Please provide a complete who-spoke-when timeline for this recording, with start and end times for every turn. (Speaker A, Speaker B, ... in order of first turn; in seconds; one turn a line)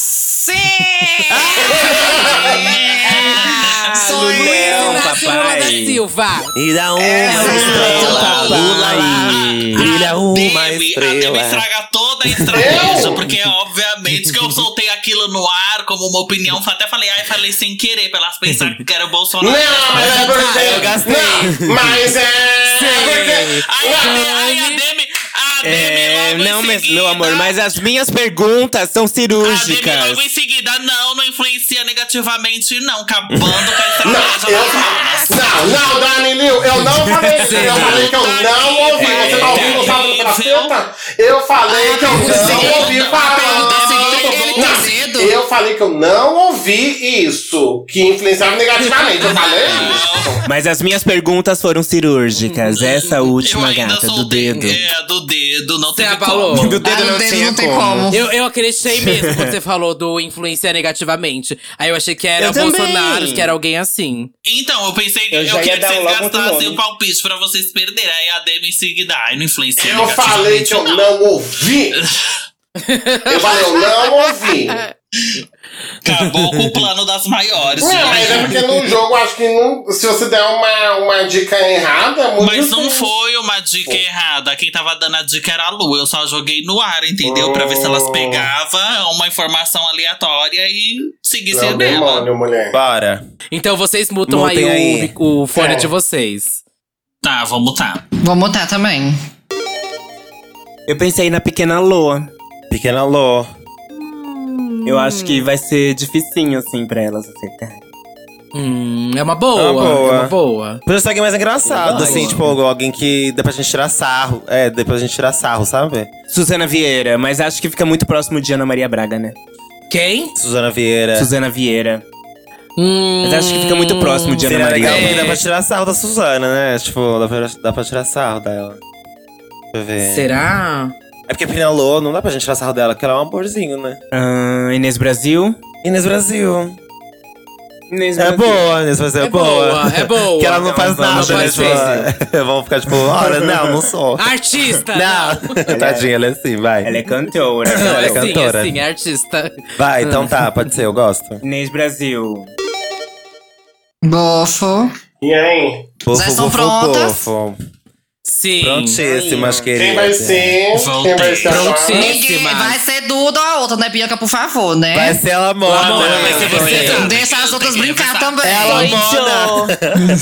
Speaker A: 0.3-5.1
Speaker B: 0.6-2.1
Speaker C: 2.0-2.5
Speaker D: 2.7-3.9
Speaker B: 3.1-6.5
Speaker E: 3.9-6.0
Speaker F: 6.5-11.6
Speaker A: 7.0-8.7
Speaker E: 7.2-9.9
Speaker B: 7.3-8.1
Speaker D: 7.8-20.2
Speaker F: 12.5-12.8
Speaker C: 12.5-13.2
Speaker C: 19.4-24.2
Speaker F: 20.0-21.7
Speaker B: 20.1-21.0
Speaker B: 22.8-24.8
Speaker D: 22.9-27.5
Speaker E: 25.6-30.2
Speaker D: 29.4-35.7
Speaker F: 33.4-33.6
Speaker C: 34.0-50.4
Speaker B: 37.4-38.1
Speaker E: 37.4-38.0
Speaker D: 37.6-40.8
Speaker E: 39.0-40.0
Speaker A: 41.7-45.4
Speaker D: 42.1-45.0
Speaker D: 49.2-50.4
Speaker E: 50.5-54.8
Speaker B: 52.4-53.3
Speaker D: 53.4-56.8
Speaker B: 54.5-54.8
Speaker B: 56.0-56.8
Speaker E: 56.5-58.1
Speaker A: 56.9-58.2
Speaker B: 58.1-64.3
Speaker E: 59.0-59.5
Speaker E: 62.4-63.5
Speaker D: 64.5-71.1
Speaker E: 65.3-66.8
Speaker C: 69.8-72.0
Speaker D: 72.0-72.4
Speaker B: 72.8-73.8
Speaker C: 73.3-74.8
Speaker B: 76.0-76.7
Speaker D: 76.0-78.5
Speaker C: 77.8-83.1
Speaker B: 78.0-78.6
Speaker D: 82.4-92.3
Speaker C: 87.2-88.5
Speaker C: 91.5-92.8
Speaker F: 92.7-93.2
Speaker B: 93.5-96.6
Speaker F: 94.3-95.1
Speaker C: 95.5-95.9
Speaker D: 97.2-98.0
Speaker A: 98.2-99.2
Speaker E: 100.9-102.3
Speaker F: 102.7-103.5
Speaker B: 103.9-105.4
Speaker E: 104.9-107.8
Speaker B: 108.5-110.8
Speaker F: 109.5-110.3
Speaker F: 110.9-116.1
Speaker E: 111.7-112.5
Speaker B: 111.8-112.4
Speaker E: 116.3-119.4
Speaker B: 119.9-120.3
Speaker F: 120.4-121.3
Speaker E: 121.2-122.0
Speaker B: 122.8-125.4
Speaker E: 123.2-125.4
Speaker F: 124.5-128.8
Speaker F: 129.7-130.3
Speaker B: 130.0-130.9
Speaker F: 131.3-134.0
Speaker E: 134.1-135.6
Speaker F: 135.8-136.8
Speaker E: 137.9-138.7
Speaker F: 138.2-144.3
Speaker B: 139.2-142.0
Speaker E: 140.6-142.1
Speaker E: 143.4-143.7
Speaker B: 144.2-145.5
Speaker F: 144.9-146.9
Speaker E: 145.7-146.1
Speaker E: 146.8-148.4
Speaker F: 147.7-148.8
Speaker B: 147.8-150.5
Speaker F: 149.8-151.4
Speaker E: 151.4-152.5
Speaker A: 154.0-154.9
Speaker C: 155.2-155.9
Speaker F: 156.1-157.6
Speaker A: 156.1-157.3
Speaker B: 158.2-159.0
Speaker F: 158.6-160.6
Speaker E: 159.0-159.7
Speaker C: 159.8-162.2
Speaker D: 160.7-161.8
Speaker B: 161.5-162.8
Speaker A: 161.9-165.2
Speaker F: 164.9-167.1
Speaker B: 165.7-167.1
Speaker E: 165.8-167.1
Speaker D: 165.8-168.4
Speaker A: 166.7-169.0
Speaker F: 168.4-170.0
Speaker E: 168.7-169.8